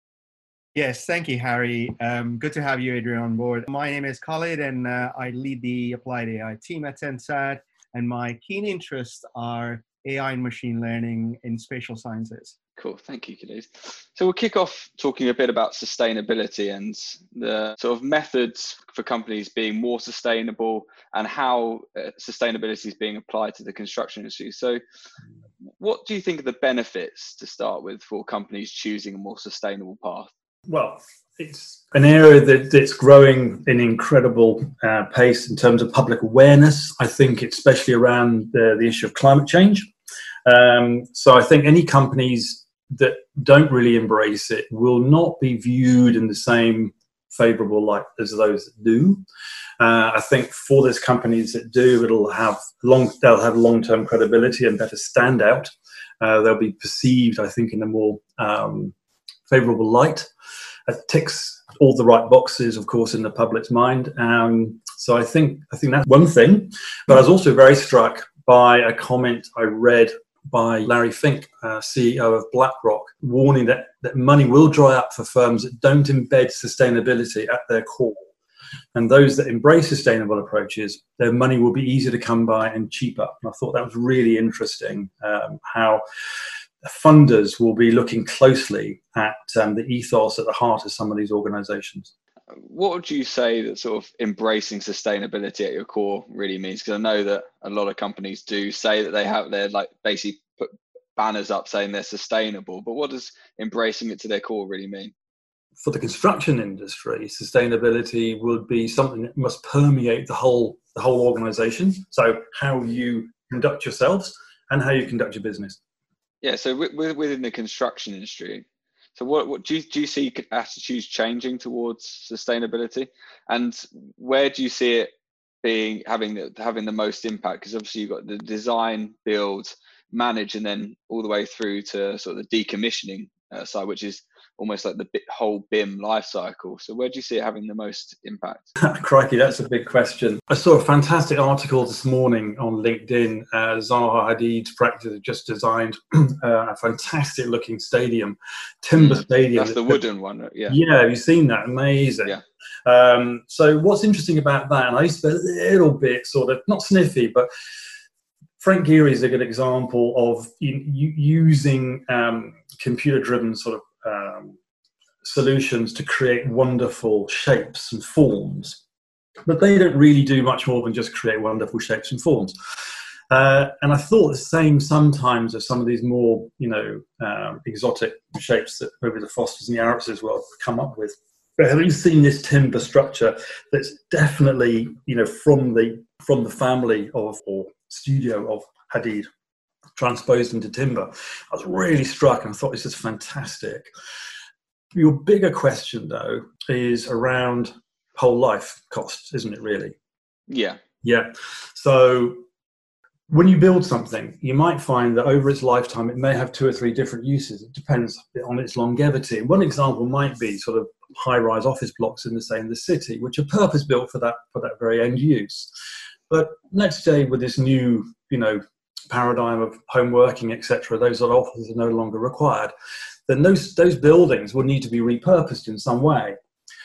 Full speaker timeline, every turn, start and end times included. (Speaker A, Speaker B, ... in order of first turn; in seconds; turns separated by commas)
Speaker A: 0.8-12.6, Speaker B: 12.8-24.8, Speaker B: 25.8-30.3, Speaker C: 30.7-39.9, Speaker C: 40.5-49.2, Speaker C: 49.8-58.9, Speaker C: 59.5-60.3, Speaker C: 60.9-78.3, Speaker C: 79.0-86.0, Speaker C: 86.8-92.1, Speaker B: 92.5-105.1, Speaker C: 105.8-115.8, Speaker B: 116.4-118.7, Speaker B: 119.2-125.1, Speaker B: 125.6-138.7, Speaker C: 138.8-150.0, Speaker B: 149.0-150.8, Speaker C: 150.7-157.5, Speaker C: 158.6-164.6, Speaker C: 165.2-168.8, Speaker C: 169.5-172.6, Speaker C: 173.3-189.3, Speaker C: 190.0-193.9, Speaker C: 194.9-200.0, Speaker B: 200.5-200.8, Speaker C: 201.0-202.4, Speaker C: 203.3-215.7, Speaker C: 216.3-222.7, Speaker C: 223.3-226.4